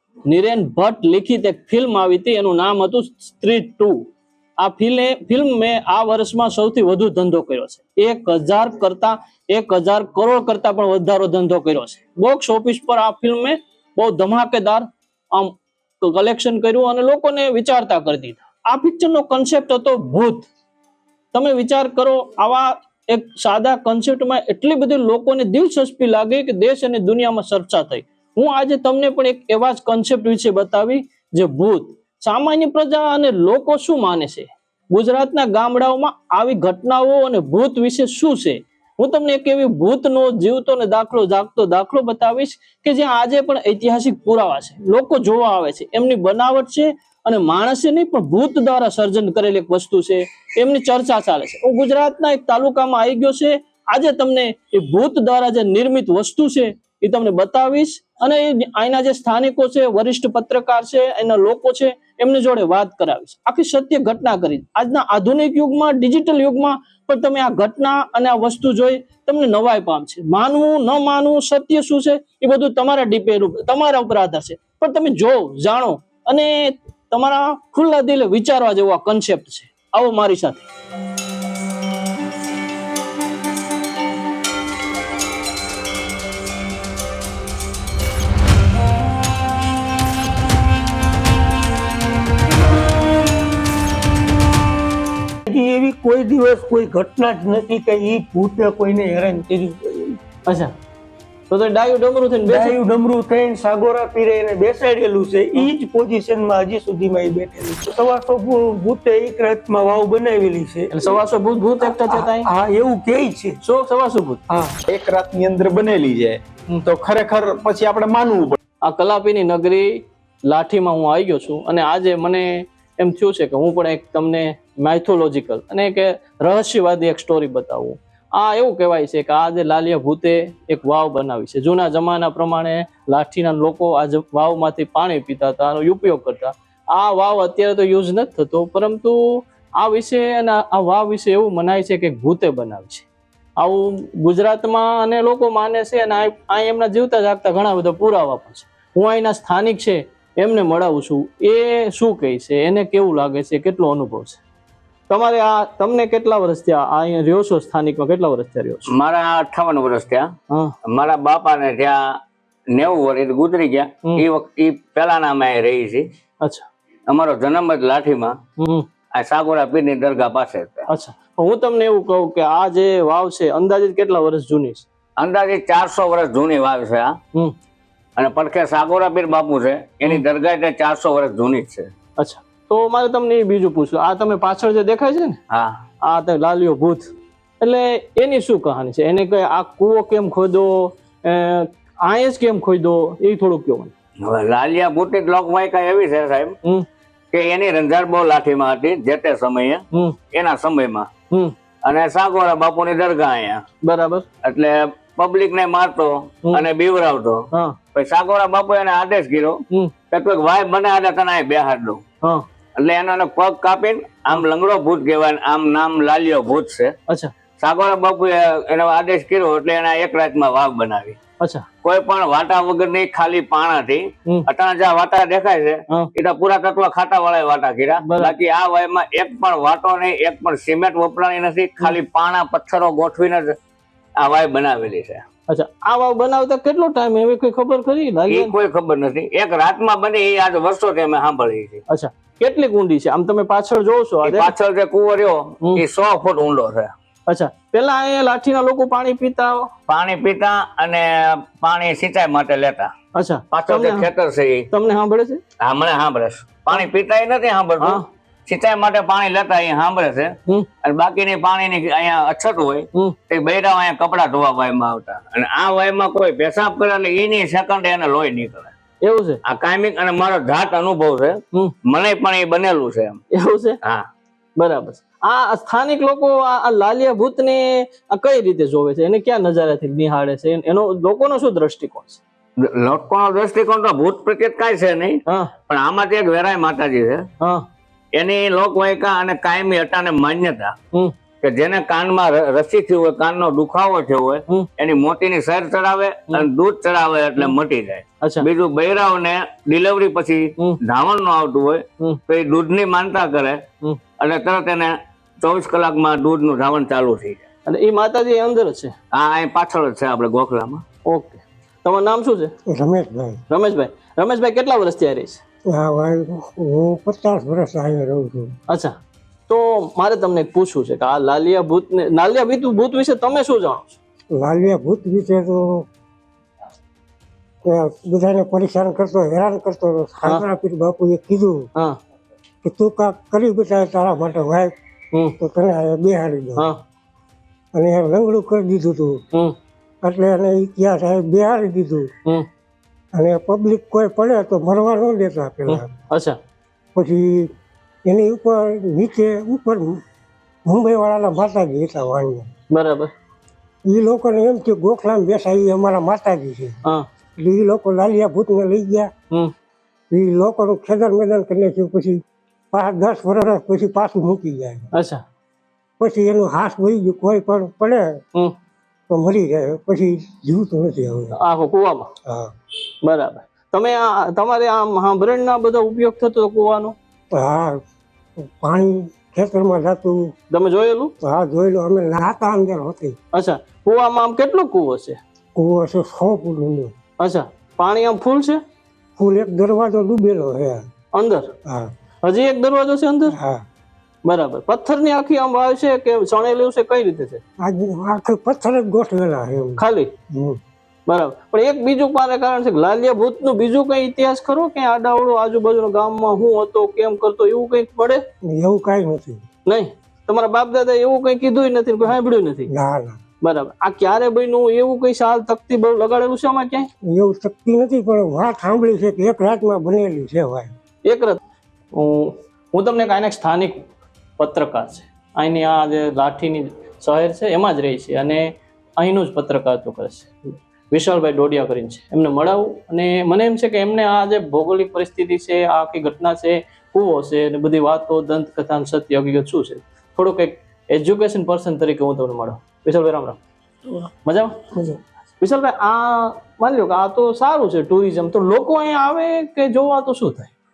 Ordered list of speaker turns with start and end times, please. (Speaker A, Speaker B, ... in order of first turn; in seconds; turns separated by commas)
Speaker A: 0.3-4.1, Speaker A: 4.6-20.5, Speaker A: 21.3-80.7, Speaker B: 95.5-100.2, Speaker A: 100.5-100.7, Speaker A: 101.5-102.8, Speaker B: 102.5-111.2, Speaker A: 110.9-112.5, Speaker B: 111.8-113.6, Speaker A: 113.6-114.4, Speaker B: 114.5-114.8, Speaker C: 114.9-118.6, Speaker A: 118.8-143.1, Speaker A: 143.6-154.4, Speaker A: 155.1-158.9, Speaker D: 158.9-160.3, Speaker D: 160.8-162.2, Speaker D: 162.7-166.1, Speaker A: 166.4-166.7, Speaker D: 167.1-168.4, Speaker A: 168.6-168.9, Speaker D: 169.1-170.9, Speaker A: 170.9-174.9, Speaker D: 175.2-177.2, Speaker D: 178.2-181.9, Speaker A: 182.2-185.4, Speaker D: 185.5-185.8, Speaker A: 186.0-193.9, Speaker D: 194.2-196.6, Speaker D: 197.3-201.1, Speaker D: 201.8-203.6, Speaker A: 203.8-204.2, Speaker D: 204.4-212.0, Speaker D: 212.8-216.9, Speaker D: 217.6-221.2, Speaker A: 221.4-221.7, Speaker D: 221.8-233.5, Speaker A: 228.0-228.3, Speaker D: 234.2-235.2, Speaker A: 235.5-238.5, Speaker D: 238.3-241.8, Speaker A: 241.9-244.6, Speaker D: 244.2-246.9, Speaker A: 247.3-249.7, Speaker D: 249.9-252.9, Speaker A: 253.2-254.1, Speaker D: 253.5-254.7, Speaker A: 254.7-255.4, Speaker D: 255.6-268.7, Speaker A: 269.0-269.4, Speaker D: 269.4-273.2, Speaker A: 273.3-273.8, Speaker A: 274.6-282.2, Speaker D: 282.6-287.3, Speaker A: 285.3-285.5, Speaker D: 288.1-290.8, Speaker D: 291.4-303.6, Speaker A: 298.2-298.5, Speaker D: 304.2-307.5, Speaker A: 307.7-308.9, Speaker D: 309.1-310.8, Speaker A: 311.1-312.5, Speaker E: 312.7-313.4, Speaker A: 313.5-315.4, Speaker E: 315.7-318.6, Speaker A: 318.7-318.9, Speaker A: 319.5-324.0, Speaker E: 324.3-325.9, Speaker E: 327.6-331.7, Speaker E: 332.6-334.7, Speaker E: 335.4-336.7, Speaker E: 337.7-339.2, Speaker E: 340.0-342.1, Speaker E: 343.1-345.9, Speaker A: 345.7-346.4, Speaker E: 346.9-347.5, Speaker E: 348.1-350.0, Speaker E: 350.6-352.5, Speaker A: 352.7-353.1, Speaker E: 353.9-356.8, Speaker E: 357.4-359.1, Speaker E: 360.1-364.9, Speaker A: 364.9-365.2, Speaker E: 366.0-368.2, Speaker E: 369.1-371.4, Speaker A: 371.4-372.1, Speaker E: 372.3-372.5, Speaker A: 373.0-376.9, Speaker E: 377.3-377.8, Speaker E: 378.4-380.3, Speaker A: 380.5-381.1, Speaker E: 381.2-383.2, Speaker A: 383.3-385.2, Speaker E: 385.6-386.9, Speaker A: 387.2-388.6, Speaker E: 389.2-390.9, Speaker A: 391.1-391.5, Speaker E: 391.6-391.9, Speaker A: 392.2-393.4, Speaker E: 393.3-393.6, Speaker A: 394.2-397.4, Speaker E: 397.6-400.6, Speaker A: 399.8-400.1, Speaker A: 401.1-408.2, Speaker E: 408.4-409.4, Speaker A: 409.7-412.7, Speaker E: 412.7-413.2, Speaker A: 413.4-416.9, Speaker E: 417.1-420.7, Speaker A: 421.1-421.4, Speaker A: 421.9-423.9, Speaker A: 424.4-443.4, Speaker A: 444.2-444.6, Speaker B: 444.7-445.0, Speaker A: 445.4-450.5